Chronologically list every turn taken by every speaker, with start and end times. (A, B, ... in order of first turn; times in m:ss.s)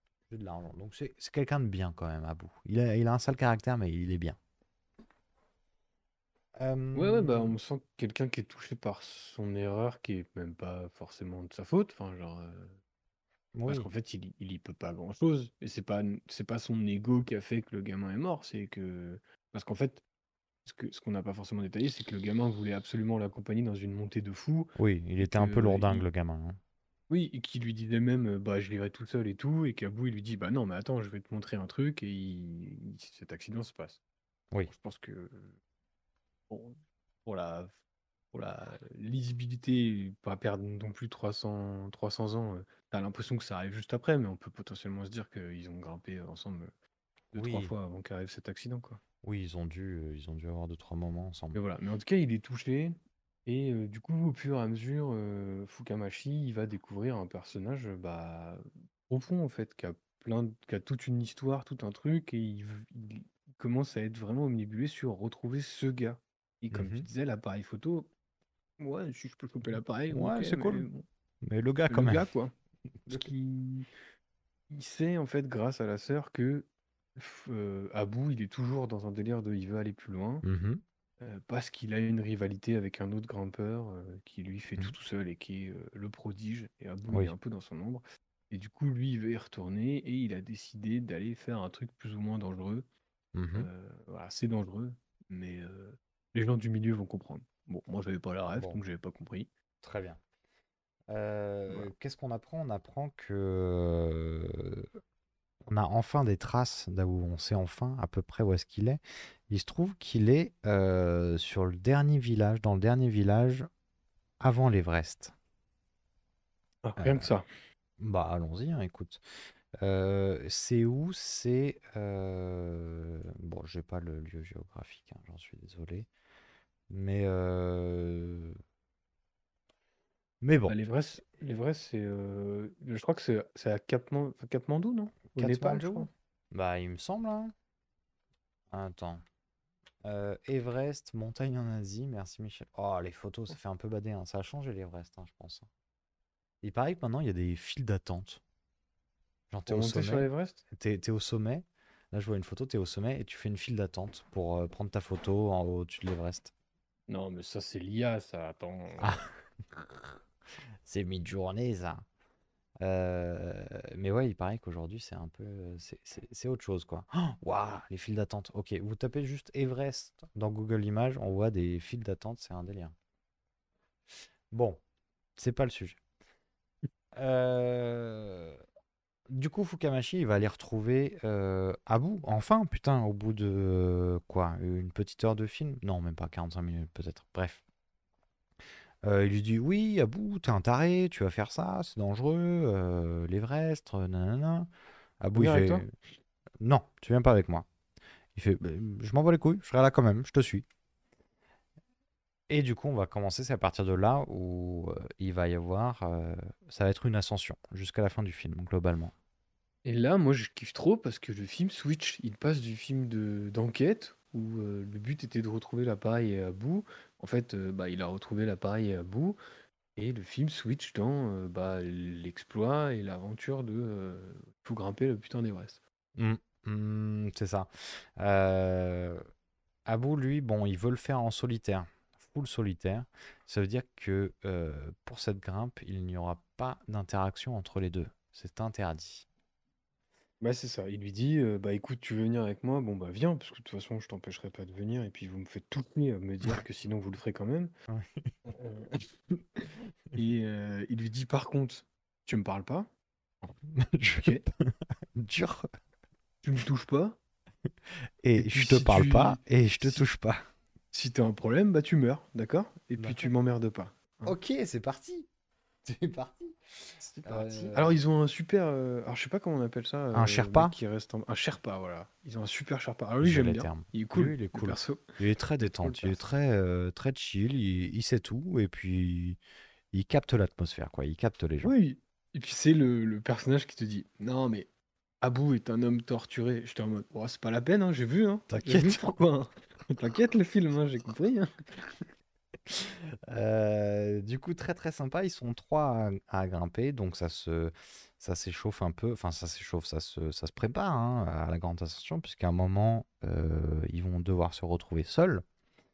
0:00.3-0:04.4 A
0:06.6-0:07.5 A
0:06.9-0:12.8 B
0:13.5-0:13.9 A
0:13.7-0:20.0 B
0:20.6-0:26.0 B
0:24.8-0:26.6 A
0:27.1-0:34.0 B
0:34.7-0:35.6 B
0:36.5-0:37.8 B
0:38.3-0:46.7 B
0:47.3-0:49.0 B
0:47.3-0:47.7 A
0:49.2-0:51.6 A
0:51.5-1:08.1 B
1:06.7-1:07.0 A
1:08.8-1:11.0 B
1:10.1-1:10.9 A
1:11.4-1:12.2 A
1:11.9-1:12.5 B
1:13.0-1:13.3 A
1:13.1-1:13.9 B
1:14.7-1:20.4 B
1:20.4-1:20.8 A
1:21.2-1:32.9 B
1:27.1-1:27.3 A
1:33.3-1:33.7 A
1:33.6-1:39.5 B
1:39.8-1:40.2 A
1:41.1-1:44.9 A
1:45.6-1:53.7 A
1:54.4-1:55.3 A
1:56.8-1:57.4 B
1:57.0-1:57.3 A
1:58.0-1:59.2 A
1:59.8-2:06.1 A
2:06.9-2:08.6 A
2:10.4-2:10.8 A
2:10.7-2:16.1 B
2:15.3-2:17.5 A
2:18.7-2:19.2 A
2:20.0-2:25.7 A
2:26.6-2:28.4 A
2:29.5-2:36.5 A
2:29.7-2:30.6 B
2:37.1-2:39.3 B
2:39.0-2:40.1 A
2:40.8-2:42.0 A
2:42.8-2:52.9 A
2:54.5-2:54.8 A
2:55.4-2:56.0 A
2:57.1-2:58.6 A
2:59.3-3:07.6 A
3:09.0-3:14.7 A
3:15.2-3:15.9 A
3:15.3-3:15.8 B
3:16.6-3:17.6 A
3:18.3-3:20.6 A
3:22.5-3:29.1 A
3:29.8-3:39.4 B
3:40.0-3:45.8 B
3:46.2-3:49.2 A
3:49.8-3:59.2 A
4:00.4-4:07.7 B
4:07.9-4:08.3 A
4:08.5-4:12.9 B
4:13.7-4:15.7 A
4:16.4-4:17.2 B
4:18.2-4:20.5 A
4:18.4-4:20.0 B
4:20.9-4:24.4 B
4:23.0-4:23.3 A
4:24.2-4:25.3 A
4:25.8-4:26.6 A
4:27.0-4:36.2 B
4:27.2-4:28.0 A
4:30.1-4:30.8 A
4:33.2-4:39.4 A
4:39.9-4:41.7 A
4:41.6-4:44.7 B
4:45.2-4:52.0 B
4:48.5-4:49.2 A
4:52.7-5:05.4 A